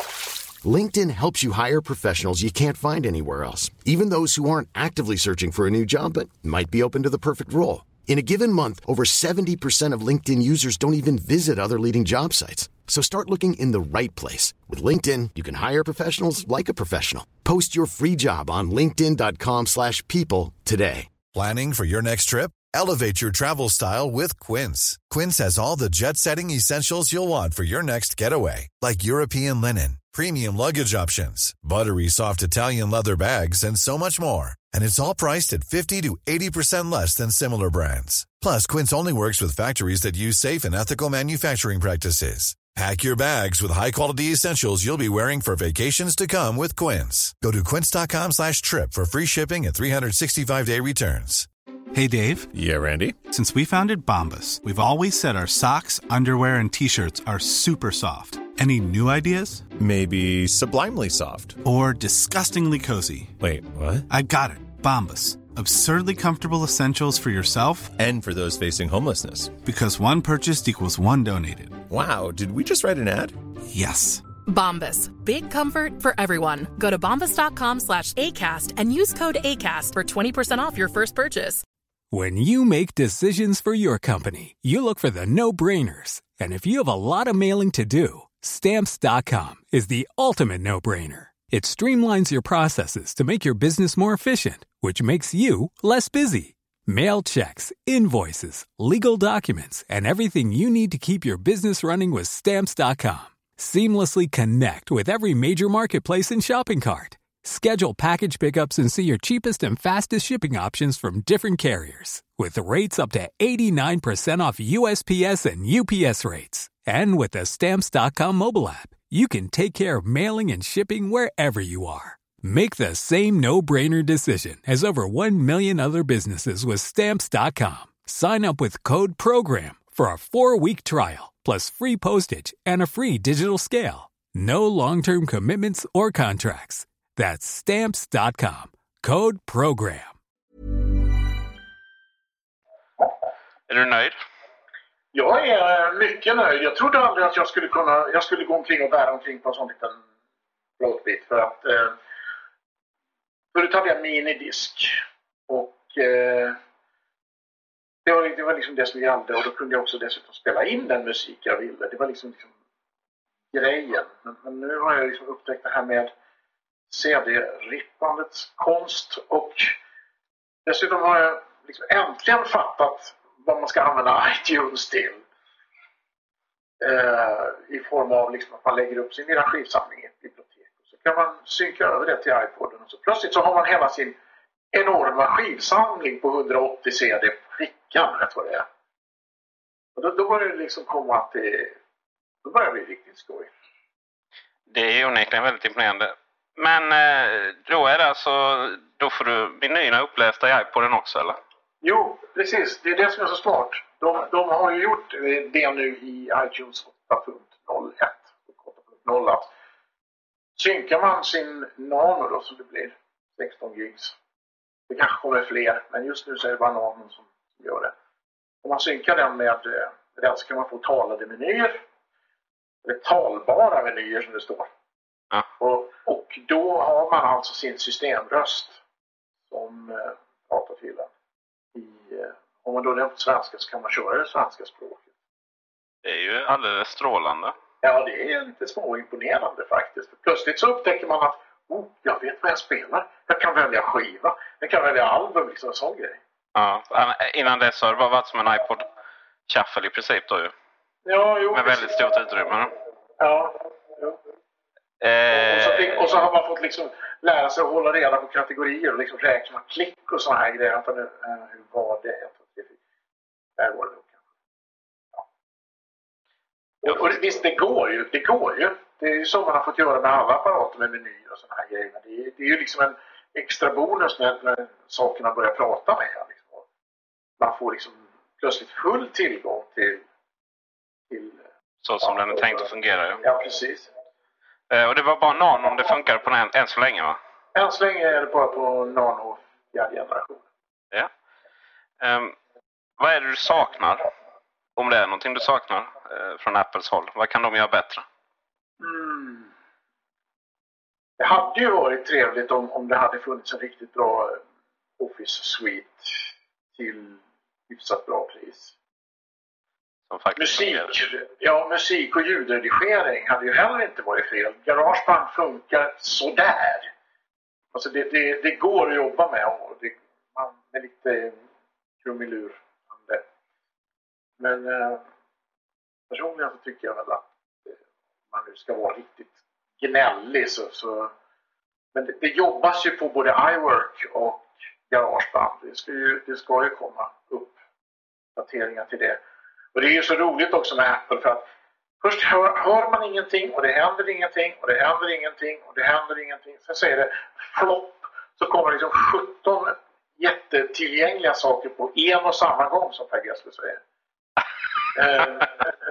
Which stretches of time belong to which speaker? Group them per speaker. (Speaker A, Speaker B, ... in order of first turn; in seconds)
Speaker A: 0.6-21.1
Speaker B: 21.3-51.5
Speaker C: 51.9-52.5, 53.3-59.7, 61.6-63.4, 64.1-67.9, 69.7-71.8, 73.7-74.2
Speaker D: 52.5-53.2, 59.8-61.6, 63.4-64.1, 68.0-69.5, 71.9-73.4
Speaker E: 74.5-81.6
Speaker F: 82.1-140.1
Speaker G: 143.7-144.1, 194.7-201.4, 236.1-237.5, 246.6-248.8, 249.5-250.5, 251.5-252.7, 255.0-256.0, 281.8-283.2, 284.7-287.2, 292.0-292.4, 293.0-294.1, 294.8-298.1, 310.1-310.9
Speaker H: 145.1-150.0, 150.8-152.0, 153.5-156.6, 158.1-162.5, 163.5-166.1, 166.9-169.8, 170.7-175.2, 176.8-184.2, 184.7-188.7, 190.0-191.8, 192.4-193.5, 201.8-209.5, 210.6-214.2, 214.9-217.9, 218.6-221.8, 222.8-224.7, 225.6-228.8, 229.5-231.1, 231.7-235.1, 237.8-246.2, 251.1-252.0, 253.2-254.2, 255.3-262.8, 263.6-264.2, 266.8-276.6, 277.4-280.0, 281.1-281.4, 282.0-282.7, 283.2-283.9, 287.6-290.4, 298.8-299.5, 301.2-304.4, 305.0-308.8, 310.4-316.9, 317.7-321.4, 322.0-323.2, 324.4-325.0, 326.1-327.7, 328.3-331.1, 331.9-337.6, 338.4-339.2, 339.7-341.5, 342.0-353.8, 354.9-355.6